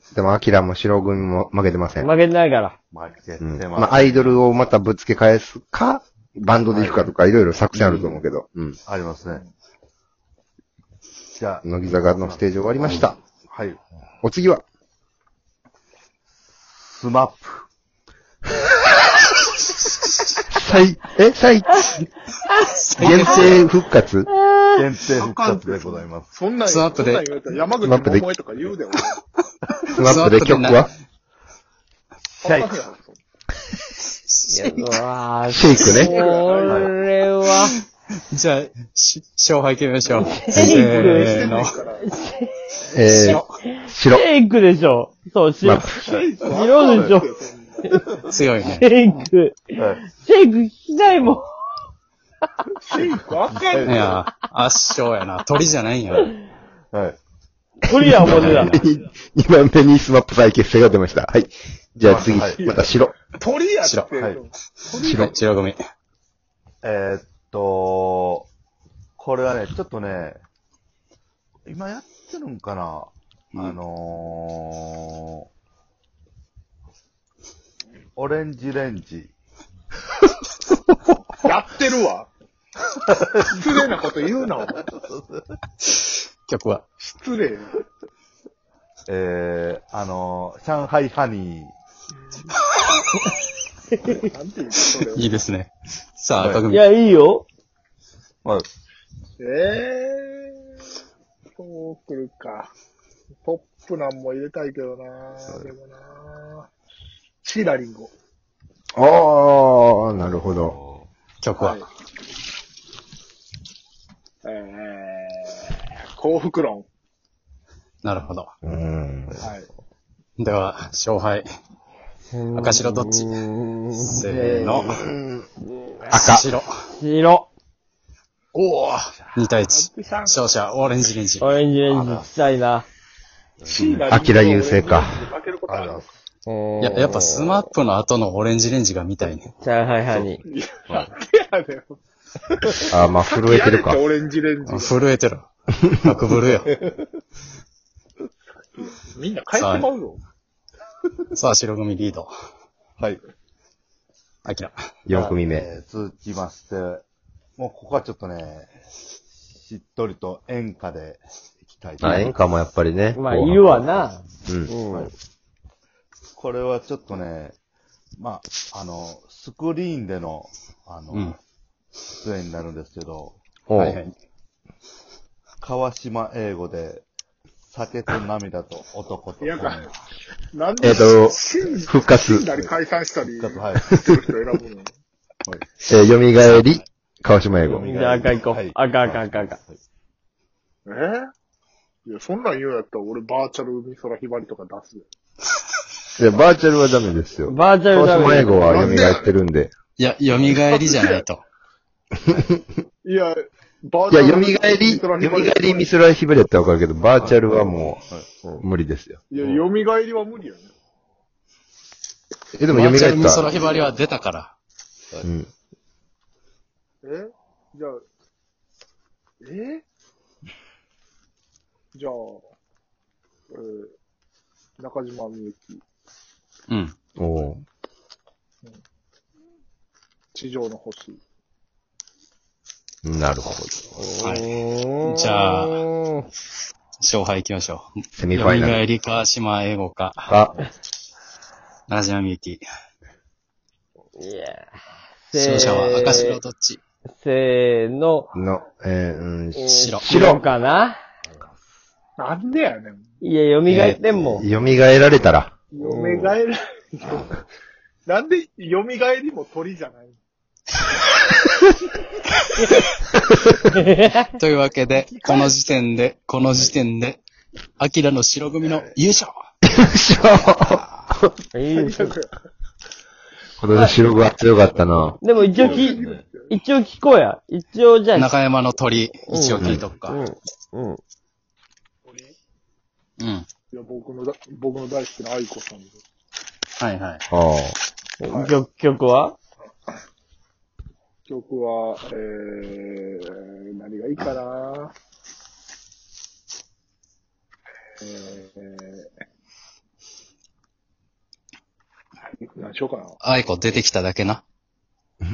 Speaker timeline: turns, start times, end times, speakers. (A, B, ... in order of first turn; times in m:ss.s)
0:00.1-0:02.1 A
0:02.0-0:02.8 B
0:02.9-0:04.4 C
0:03.4-0:08.8 A
0:06.7-0:07.1 C
0:07.7-0:08.2 C
0:08.8-0:09.4 C
0:11.4-0:13.8 C
0:11.6-0:13.2 A
0:14.2-0:14.6 A
0:16.7-0:17.7 C
0:20.5-0:22.1 A
0:22.5-0:23.7 D
0:23.0-0:24.3 A
0:24.4-0:24.8 B
0:24.8-0:26.3 C
0:25.2-0:29.2 E
0:26.7-0:27.2 D
0:27.8-0:28.3 A
0:29.9-0:30.9 D
0:29.9-0:30.9 A
0:32.4-0:32.8 C
0:32.4-0:33.2 E
0:34.0-0:34.9 D
0:34.5-0:37.7 B
0:35.5-0:36.1 A
0:36.1-0:36.8 E
0:38.3-0:41.7 D
0:40.2-0:42.5 B
0:40.8-0:42.0 E
0:42.9-0:44.3 A
0:43.0-0:47.3 B
0:43.1-0:43.4 D
0:45.6-0:46.0 A
0:46.0-0:47.9 E
0:46.8-0:47.2 C
0:48.2-0:48.8 D
0:48.6-0:51.4 B
0:49.8-0:50.0 C
0:52.9-0:54.2 E
0:53.5-0:54.1 C
0:53.8-0:56.4 D
0:56.9-0:57.2 C
0:57.8-0:58.8 B
0:57.9-1:03.2 A
0:58.2-0:58.8 D
1:02.0-1:02.6 C
1:02.5-1:05.2 E
1:03.8-1:04.1 D
1:04.1-1:04.4 C
1:05.0-1:05.3 A
1:05.0-1:05.8 D
1:06.8-1:08.5 C
1:09.2-1:10.4 C
1:11.7-1:15.3 C
1:18.2-1:19.3 C
1:21.4-1:22.3 E
1:23.2-1:23.8 C
1:23.5-1:24.7 E
1:24.8-1:25.5 C
1:26.5-1:26.8 D
1:27.0-1:27.8 E
1:29.1-1:31.7 C
1:34.2-1:35.4 E
1:35.1-1:36.8 D
1:36.4-1:36.6 C
1:36.7-1:37.4 B
1:39.4-1:40.7 E
1:41.6-1:42.7 E
1:43.4-1:46.7 E
1:47.4-1:48.1 E
1:49.0-1:50.8 A
1:50.2-1:51.1 C
1:51.4-1:51.8 D
1:51.6-1:51.9 E
1:54.4-1:56.9 E
1:58.0-1:58.5 D
1:58.6-1:59.4 A
2:00.4-2:01.5 D
2:02.3-2:05.0 B
2:02.5-2:03.4 D
2:04.0-2:04.9 D
2:04.1-2:05.0 C
2:04.8-2:05.5 A
2:06.1-2:06.5 A
2:06.1-2:06.7 D
2:06.9-2:07.5 B
2:08.5-2:11.6 D
2:09.6-2:10.4 E
2:11.4-2:12.9 B
2:11.9-2:12.3 C
2:13.6-2:14.1 C
2:13.7-2:16.1 E
2:14.1-2:15.1 A
2:15.7-2:16.0 C
2:16.5-2:17.6 B
2:16.8-2:19.5 D
2:19.6-2:20.4 B
2:20.4-2:22.0 E
2:22.9-2:24.0 A
2:23.2-2:25.2 E
2:24.7-2:26.7 D
2:26.7-2:27.0 C
2:29.0-2:30.2 E
2:29.5-2:29.9 D
2:31.3-2:32.3 D
2:34.4-2:34.7 D
2:35.1-2:35.7 A
2:35.5-2:37.0 C
2:37.6-2:38.7 C
2:39.5-2:42.3 C
2:42.0-2:43.8 A
2:43.2-2:45.1 B
2:44.5-2:44.7 A
2:46.4-2:47.6 C
2:48.2-2:51.4 C
2:52.2-2:53.4 C
2:53.7-2:54.0 A
2:53.8-2:54.1 D
2:55.6-2:57.1 C
2:57.6-2:59.9 C
2:59.4-2:59.8 E
3:00.5-3:04.9 E
3:00.8-3:02.5 A
3:03.4-3:03.9 C
3:05.9-3:07.8 A
3:07.5-3:09.8 C
3:07.8-3:09.6 B
3:10.9-3:11.3 E
3:12.1-3:15.1 E
3:16.2-3:19.7 A
3:17.5-3:18.9 B
3:18.7-3:19.3 E
3:20.0-3:21.4 D
3:20.6-3:21.2 E
3:23.0-3:25.9 E
3:24.1-3:28.0 A
3:27.2-3:28.6 C
3:28.6-3:29.3 A
3:29.3-3:30.7 E
3:32.6-3:33.5 A
3:32.7-3:34.5 D
3:35.2-3:35.5 A
3:37.0-3:38.0 E
3:39.4-3:39.8 E
3:41.9-3:42.4 E
3:43.5-3:44.0 E
3:44.8-3:45.8 E
3:46.7-3:46.9 D
3:47.2-3:47.6 A
3:50.3-3:51.2 E
3:53.0-3:54.0 A
3:54.0-3:56.2 B
3:54.2-3:55.9 D
3:57.0-4:00.3 D
3:58.1-3:58.8 A
4:00.3-4:00.5 A
4:01.9-4:02.6 D
4:04.2-4:04.7 B
4:05.3-4:06.4 B
4:05.4-4:06.8 D
4:07.1-4:08.3 B
4:08.4-4:10.4 A
4:09.6-4:11.0 B
4:09.8-4:10.0 D
4:12.2-4:13.0 E
4:13.2-4:14.5 B
4:13.7-4:15.5 A
4:13.7-4:14.0 D
4:14.4-4:14.7 C
4:15.7-4:17.3 E
4:15.8-4:16.3 B
4:18.1-4:20.2 E
4:22.4-4:22.7 D
4:23.2-4:23.9 A
4:23.8-4:24.3 B
4:24.4-4:27.2 D
4:25.0-4:25.5 E
4:27.8-4:29.3 D
4:28.6-4:28.9 C
4:29.6-4:31.3 A
4:31.6-4:32.2 B
4:31.7-4:32.3 E
4:33.6-4:35.2 A
4:34.6-4:36.2 C
4:35.2-4:38.3 B
4:35.4-4:36.5 E
4:38.2-4:40.2 D
4:39.3-4:41.0 B
4:39.6-4:39.8 A
4:42.0-4:42.3 E
4:43.2-4:43.5 D
4:43.7-4:46.0 E
4:46.8-4:47.2 D
4:47.3-4:47.8 A
4:48.2-4:49.4 B
4:48.2-4:48.5 E
4:51.3-4:54.9 E
4:58.0-4:59.1 E
5:02.4-5:03.2 E
5:03.2-5:04.4 D